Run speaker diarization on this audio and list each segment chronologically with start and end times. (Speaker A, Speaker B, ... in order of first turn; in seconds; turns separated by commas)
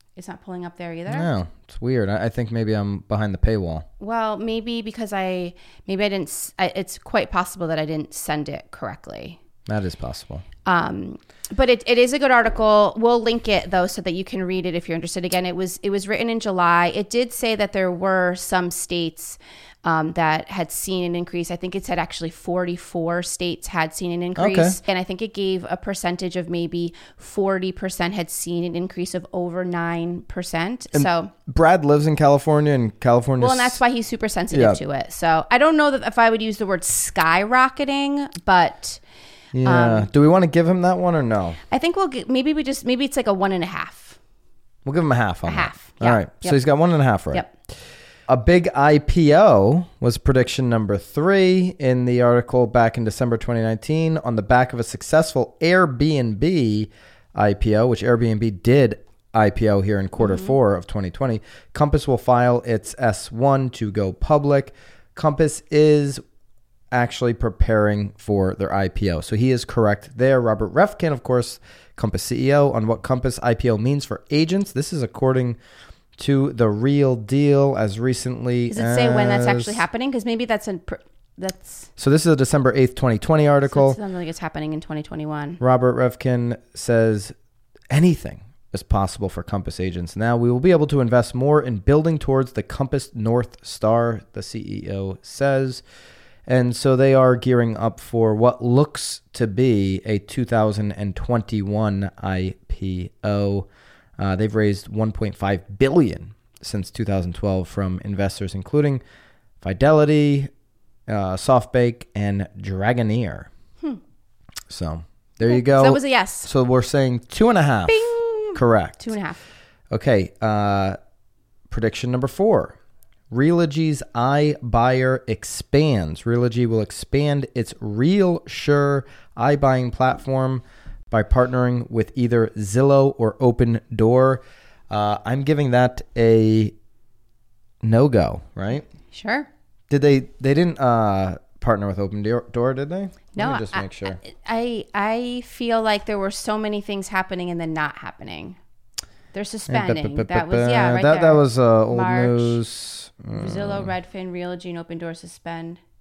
Speaker A: 0.2-1.3, Speaker B: 1.1-3.9, Speaker A: 4.0-9.4, Speaker B: 9.7-10.4, Speaker A: 10.7-31.3, Speaker B: 24.4-24.8, Speaker B: 30.9-33.8, Speaker A: 33.4-39.0, Speaker B: 34.5-34.8, Speaker B: 39.5-41.6, Speaker A: 39.6-40.1, Speaker A: 41.7-44.2, Speaker B: 44.9-47.4, Speaker A: 45.5-46.6, Speaker B: 48.3-66.2, Speaker A: 60.2-60.6, Speaker B: 66.9-75.6, Speaker B: 76.2-79.8, Speaker A: 78.7-81.9, Speaker B: 82.0-84.0, Speaker A: 83.7-85.6, Speaker B: 85.6-87.3, Speaker B: 87.9-95.8, Speaker B: 96.5-103.7, Speaker B: 104.2-109.0, Speaker B: 109.6-110.5, Speaker B: 111.1-113.5, Speaker B: 114.7-119.0, Speaker A: 115.4-116.5, Speaker A: 117.9-119.4, Speaker B: 119.9-121.0, Speaker B: 121.7-122.8, Speaker B: 123.3-136.7, Speaker B: 137.8-138.9, Speaker A: 139.1-139.5, Speaker B: 139.9-144.2, Speaker A: 143.3-148.6, Speaker A: 149.3-152.6, Speaker B: 149.7-153.9, Speaker A: 153.3-155.8